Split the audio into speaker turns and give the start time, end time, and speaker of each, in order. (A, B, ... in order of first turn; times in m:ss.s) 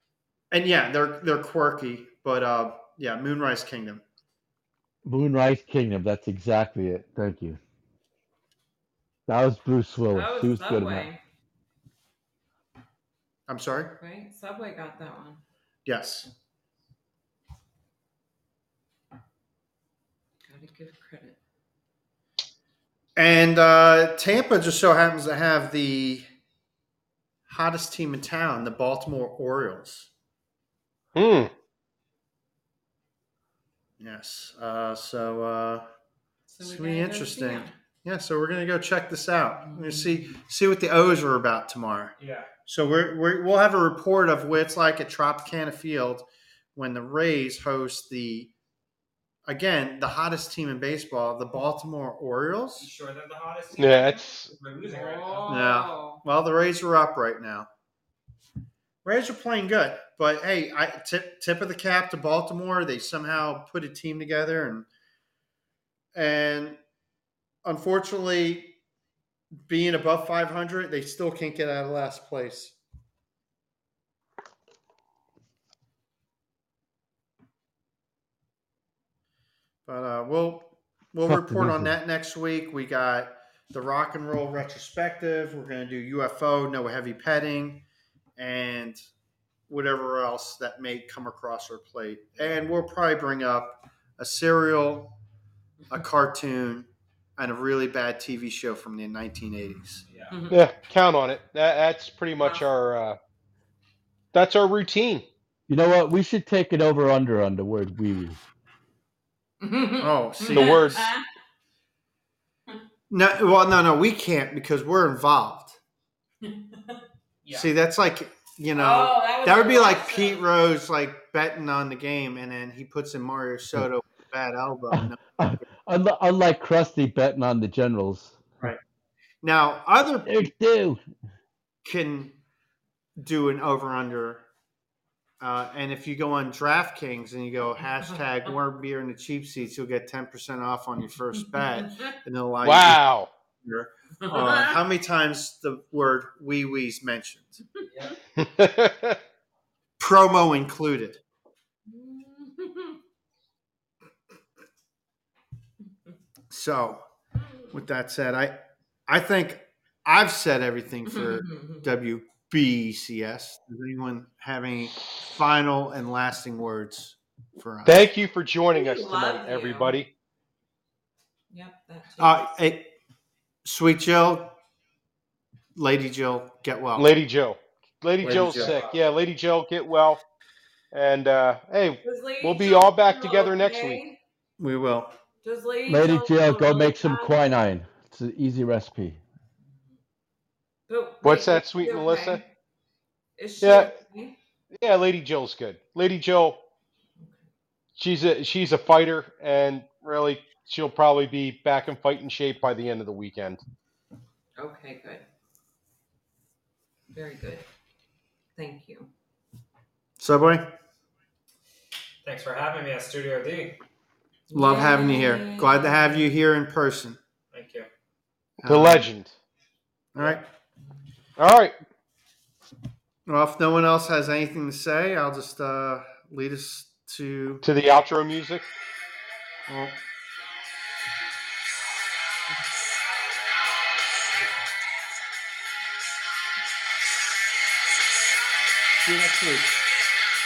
0:00.5-0:04.0 A
0:05.0-0:07.6 B
0:09.3-0:11.1 B
0:10.1-0:11.2 C
0:13.5-0:14.0 A
0:14.0-0:15.4 C
0:15.8-0:16.3 A
0:20.4-0:21.4 C
0:23.2-0:26.2 A
0:27.5-0:30.1 A
0:31.1-0:31.5 D
0:34.0-0:35.8 A
0:36.5-0:37.7 C
0:36.6-0:42.1 A
0:39.6-0:40.1 C
0:42.2-0:42.5 E
0:42.6-0:48.5 A
0:49.4-0:52.9 A
0:52.8-0:55.6 E
0:53.8-0:54.5 D
0:54.8-0:56.2 C
0:55.5-0:57.7 A
0:59.0-1:04.9 A
1:06.1-1:06.8 A
1:07.6-1:08.8 A
1:09.7-1:12.8 A
1:19.8-1:27.8 A
1:21.3-1:21.9 B
1:28.4-1:29.0 A
1:29.7-1:35.2 A
1:35.9-1:40.0 A
1:40.1-1:40.4 E
1:40.3-1:40.6 C
1:40.5-1:43.2 D
1:44.3-1:45.2 D
1:45.7-1:48.4 B
1:49.6-1:51.2 C
1:50.0-1:50.9 A
1:50.5-1:51.1 D
1:53.1-1:55.8 A
1:56.4-1:57.0 C
1:57.4-1:57.7 E
1:57.5-2:05.2 A
1:58.7-2:00.4 C
2:04.9-2:08.5 B
2:09.4-2:10.3 A
2:10.2-2:11.0 B
2:11.8-2:12.4 A
2:13.2-2:14.4 A
2:15.4-2:23.0 A
2:22.6-2:23.3 D
2:23.6-2:27.6 A
2:24.2-2:24.7 C
2:27.9-2:28.1 E
2:28.4-2:29.2 D
2:30.0-2:31.2 A
2:31.9-2:33.0 C
2:36.5-2:37.0 A
2:37.7-2:48.0 A
2:41.1-2:41.8 C
2:47.8-2:50.1 D
2:48.7-2:50.0 C
2:51.5-2:52.5 C
2:52.2-2:52.9 A
2:53.6-2:54.6 A
2:55.7-2:57.1 A
2:57.0-3:00.2 D
2:58.2-2:58.8 A
2:58.4-2:59.0 E
3:00.9-3:04.0 D
3:02.0-3:04.2 C
3:04.6-3:05.1 A
3:05.4-3:07.3 C
3:05.9-3:09.2 B
3:10.9-3:12.4 C
3:11.2-3:12.4 D
3:13.4-3:14.4 C
3:13.6-3:13.9 D
3:14.7-3:16.6 D
3:18.0-3:23.6 D
3:24.6-3:25.2 C
3:27.1-3:27.6 C
3:28.6-3:29.1 C
3:30.2-3:30.6 A
3:32.2-3:33.8 E
3:34.5-3:36.3 C
3:34.5-3:37.2 A
3:37.5-3:37.9 E
3:38.6-3:39.4 D
3:38.6-3:39.1 A
3:40.1-3:40.4 A
3:40.2-3:40.4 E
3:41.4-3:41.7 D
3:43.3-3:47.6 A
3:47.6-3:48.7 D
3:49.7-3:50.0 A
3:59.0-3:59.8 A